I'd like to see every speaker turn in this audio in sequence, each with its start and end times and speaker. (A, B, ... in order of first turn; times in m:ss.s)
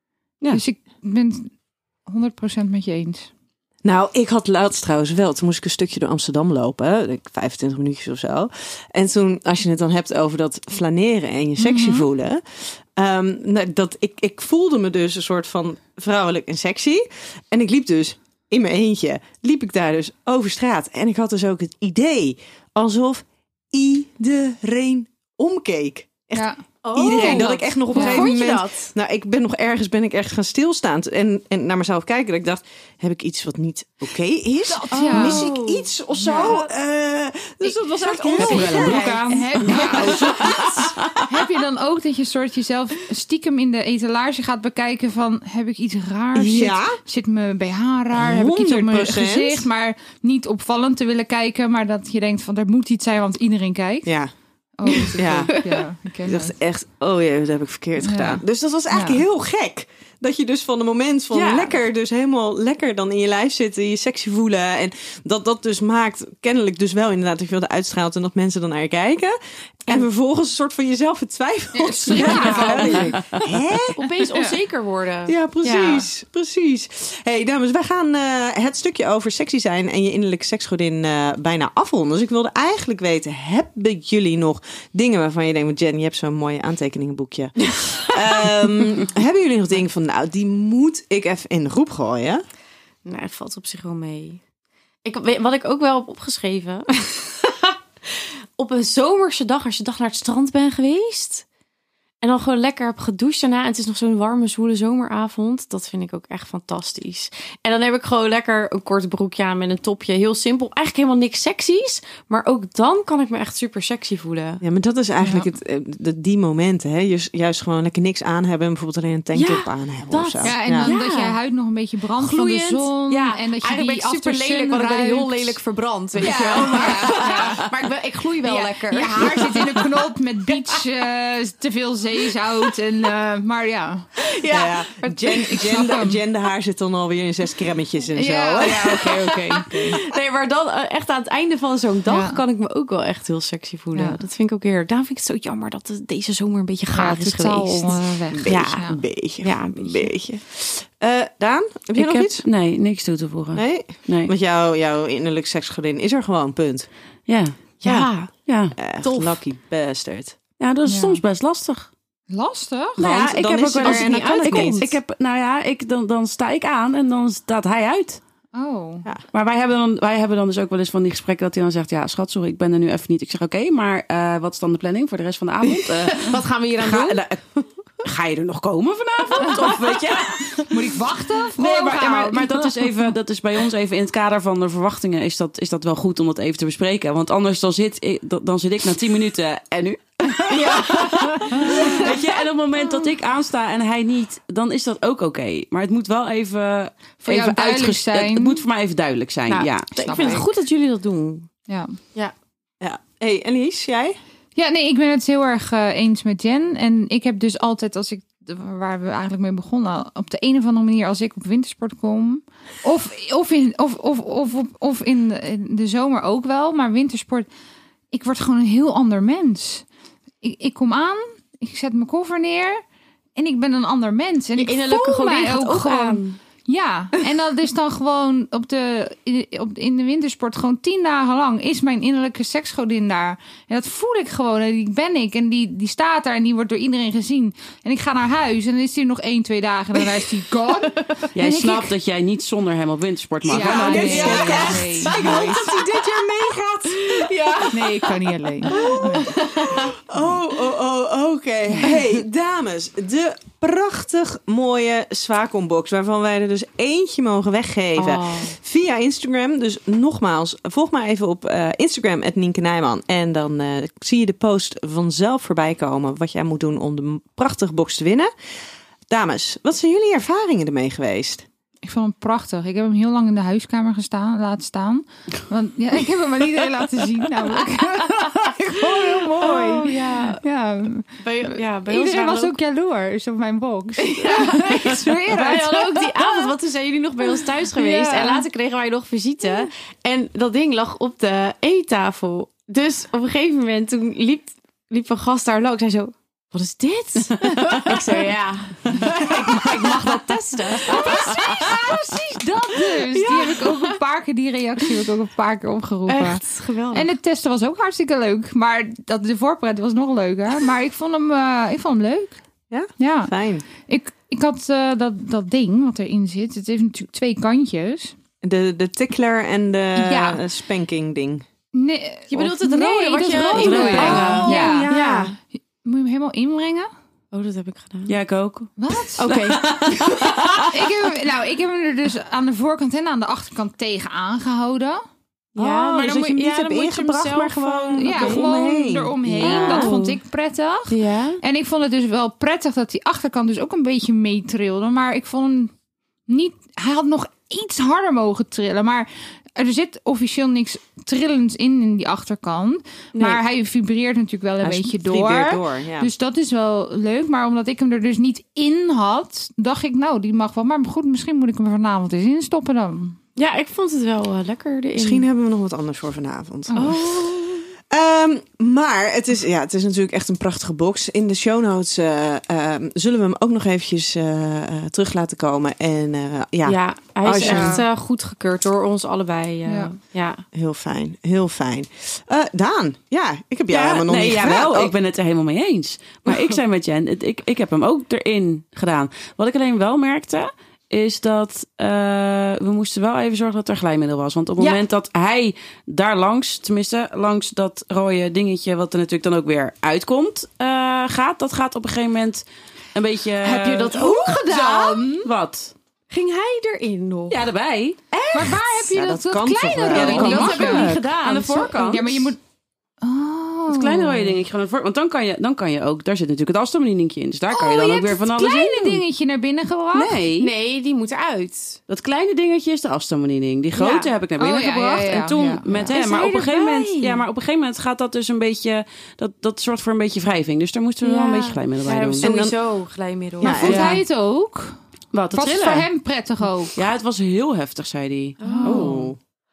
0:00.5-0:03.3 A
0:03.8-0:12.4 B
0:11.6-0:12.0 A
0:13.0-0:41.1 B
0:26.3-0:28.3 A
0:26.8-0:28.9 C
0:34.7-0:35.6 A
0:34.9-0:36.5 C
0:36.1-0:36.7 A
0:37.6-0:40.6 A
0:38.4-0:41.2 D
0:41.2-0:54.1 A
0:46.4-0:47.0 B
0:48.1-0:49.7 B
0:54.0-0:54.3 B
0:54.8-0:56.5 A
0:55.0-1:14.0 B
0:58.0-0:59.2 A
1:01.3-1:01.8 C
1:11.8-1:13.2 A
1:12.1-1:13.1 C
1:14.0-1:16.1 C
1:14.3-1:14.6 A
1:15.3-1:32.4 B
1:33.0-1:34.4 C
1:35.0-1:41.4 C
1:42.2-1:54.6 C
1:54.6-2:00.9 B
1:55.2-1:55.5 A
1:59.3-2:01.4 C
2:00.4-2:05.6 A
2:02.2-2:09.9 C
2:06.2-2:07.5 B
2:06.2-2:07.7 A
2:08.4-2:14.1 A
2:14.2-2:15.8 C
2:14.5-2:19.2 B
2:15.5-2:16.2 A
2:18.2-2:20.0 A
2:18.6-2:28.8 C
2:22.1-2:22.4 A
2:23.9-2:24.2 A
2:26.9-2:29.0 A
2:28.3-2:32.5 B
2:29.4-2:30.4 C
2:32.0-2:34.3 D
2:33.6-2:36.9 B
2:37.3-2:38.8 D
2:37.8-2:38.3 C
2:38.8-2:40.4 B
2:39.0-2:39.4 C
2:40.6-2:41.9 D
2:40.8-2:41.2 A
2:42.3-2:43.0 A
2:43.0-2:48.2 D
2:43.0-2:44.8 B
2:43.8-2:44.9 C
2:48.5-2:49.1 A
2:49.3-2:57.2 D
2:55.7-2:57.7 C
2:58.0-3:00.8 D
2:59.4-2:59.8 C
3:00.7-3:02.9 A
3:01.6-3:20.4 D
3:10.4-3:13.1 C
3:11.5-3:12.0 A
3:17.2-3:18.6 A
3:19.5-3:21.5 C
3:19.9-3:20.5 A
3:21.7-3:22.0 A
3:22.8-3:24.2 B
3:24.6-3:37.5 A
3:38.1-3:39.9 A
3:40.4-3:42.8 A
3:43.4-4:01.9 A
3:44.6-3:46.4 C
4:01.4-4:05.1 D
4:03.4-4:07.6 B
4:03.5-4:05.7 A
4:03.9-4:06.3 C
4:06.9-4:09.9 C
4:07.7-4:09.4 A
4:08.7-4:28.3 B
4:18.0-4:18.6 C
4:29.1-4:31.5 B
4:31.8-4:46.5 A
4:39.0-4:40.4 C
4:41.2-4:42.5 C
4:44.0-5:02.2 C
4:47.2-4:48.5 A
4:57.4-4:58.0 D
5:00.7-5:12.4 A
5:02.9-5:04.0 C
5:06.1-5:07.1 C
5:12.7-5:13.6 B
5:13.0-5:18.2 A
5:18.4-5:21.4 B
5:20.0-5:20.4 A
5:21.7-5:24.9 A
5:22.3-5:25.3 C
5:23.3-5:24.7 D
5:23.8-5:25.4 B
5:25.8-5:26.9 A
5:27.3-5:28.1 C
5:28.1-5:30.8 D
5:28.8-5:29.3 A
5:29.2-5:30.7 C
5:30.7-5:35.0 A
5:35.6-5:40.0 B
5:35.6-5:38.5 C
5:38.0-5:45.7 A
5:39.4-5:40.2 C
5:40.9-5:41.4 C
5:46.3-6:03.2 A
5:53.2-5:53.4 C
5:54.6-5:56.1 B
6:03.4-6:05.3 C
6:05.0-6:07.4 B
6:06.8-6:07.7 C
6:07.9-6:17.8 B
6:16.6-6:20.4 C
6:17.4-6:17.9 A
6:19.7-6:19.9 A
6:20.5-6:24.9 B
6:23.7-6:42.4 D
6:26.3-6:26.6 C
6:42.9-6:44.6 D
6:43.4-6:45.2 C
6:43.9-6:44.5 B
6:44.5-6:45.2 A
6:45.1-6:45.7 D
6:46.1-6:47.4 C
6:47.3-6:48.0 D
6:48.1-6:51.0 B
6:48.3-6:51.0 A
6:49.9-6:52.3 D
6:49.9-6:52.1 C
6:51.7-6:52.4 A
6:53.0-6:54.4 A
6:53.7-6:59.0 D
6:57.5-7:00.2 A
6:59.9-7:00.5 D
7:00.4-7:01.8 C
7:01.9-7:12.4 D
7:03.8-7:04.1 C
7:04.4-7:05.9 A
7:05.9-7:07.2 C
7:11.0-7:13.7 C
7:12.2-7:12.6 B
7:13.4-7:14.0 B
7:13.4-7:14.8 A
7:13.6-7:14.0 D
7:15.1-7:15.9 D
7:15.3-7:16.7 A
7:16.8-7:19.1 D
7:18.4-7:18.8 A
7:18.4-7:19.0 C
7:18.6-7:19.2 B